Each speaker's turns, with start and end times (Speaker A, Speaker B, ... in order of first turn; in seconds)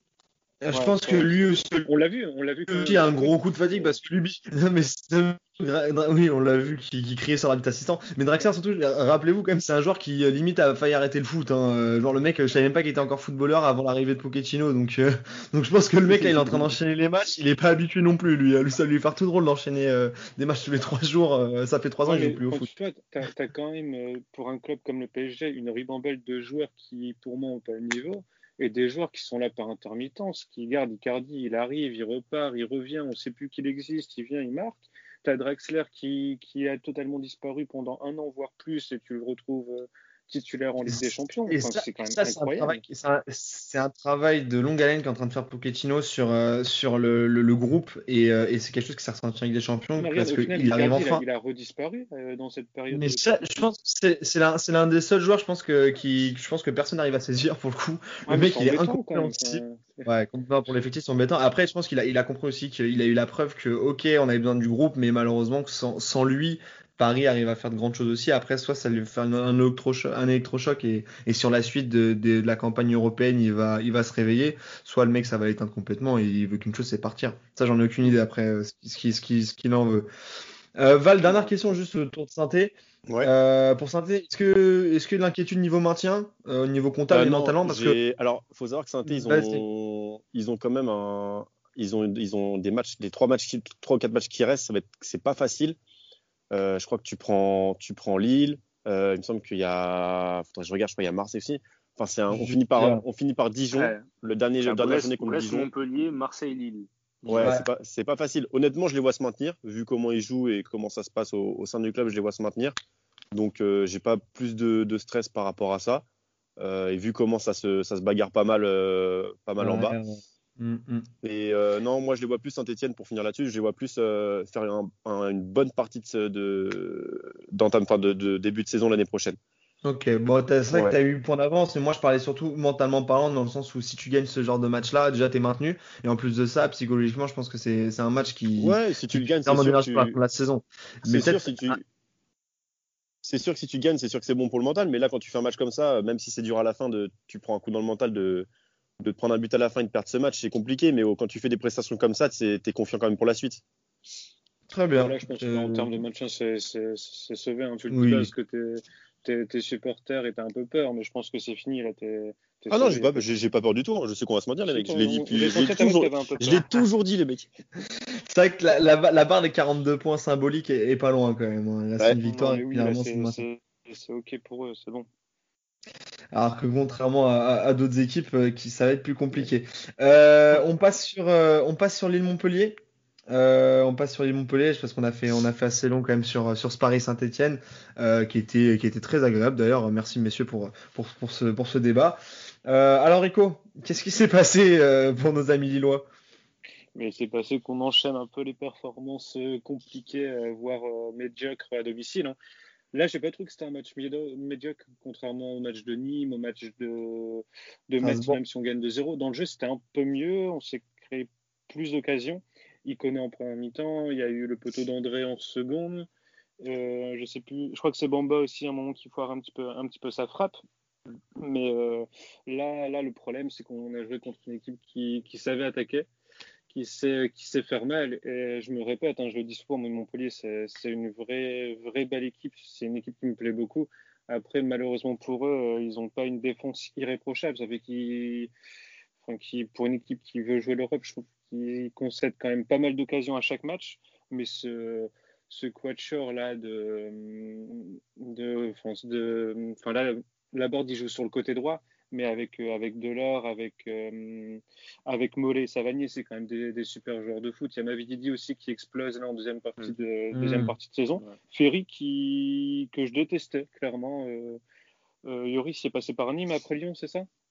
Speaker A: 0.6-1.9, 2.7-22.7, 40.9-51.2, 52.9-80.1, 80.8-88.0, 89.1-89.6, 102.3-103.0, 107.4-107.7, 119.6-121.1, 129.8-141.8, 154.7-155.9, 157.9-158.3, 168.3-173.4, 176.3-196.1, 208.0-208.4, 260.3-260.7
Speaker B: 0.7-4.0, 16.1-16.7, 22.0-42.8, 50.0-53.4, 58.3-60.1, 155.0-163.2, 164.7-166.7, 172.2-175.1, 196.9-202.3, 202.9-216.1, 216.6-220.6, 221.4-226.1, 226.7-238.5, 239.2-264.6, 265.2-267.3
Speaker C: 83.1-83.3, 87.1-95.8, 96.5-105.7, 107.2-112.8, 113.3-116.0, 116.6-120.0, 121.2-129.4, 138.6-140.2, 141.0-141.8, 143.2-148.5, 149.0-153.6, 162.7-167.5
Speaker D: 103.7-104.0, 104.6-107.5